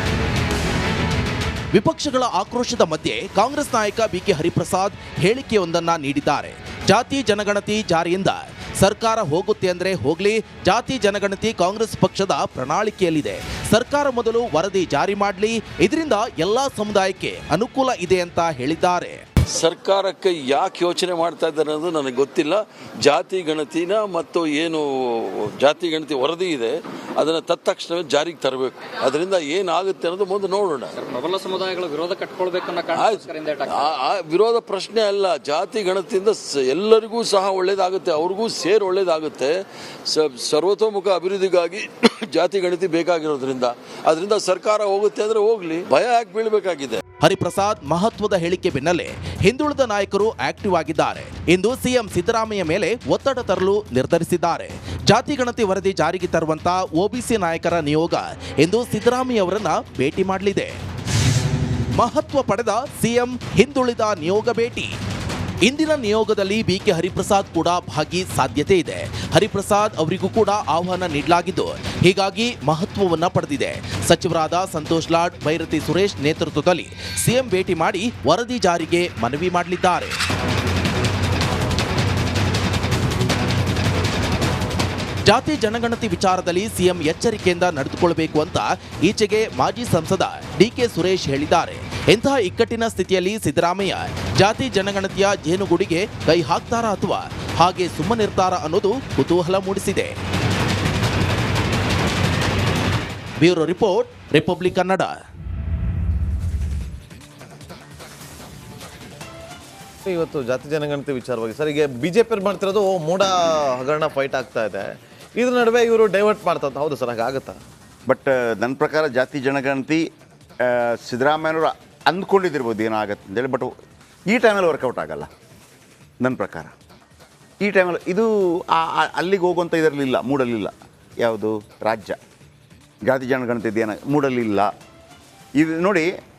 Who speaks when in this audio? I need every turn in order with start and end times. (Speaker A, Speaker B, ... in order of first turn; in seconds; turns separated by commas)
Speaker A: 1.7-19.2, Speaker B: 19.5-31.0, Speaker C: 31.0-33.8, Speaker B: 32.9-47.0, Speaker A: 47.2-60.7, Speaker A: 62.0-64.9, Speaker A: 65.7-80.2, Speaker A: 85.3-100.2, Speaker A: 103.4-105.2, Speaker D: 110.1-117.6, Speaker E: 118.1-120.0, Speaker E: 120.6-123.7, Speaker E: 124.3-125.3, Speaker E: 126.2-126.7, Speaker E: 127.6-130.7, Speaker E: 131.2-132.2, Speaker E: 133.1-134.7, Speaker E: 135.6-136.1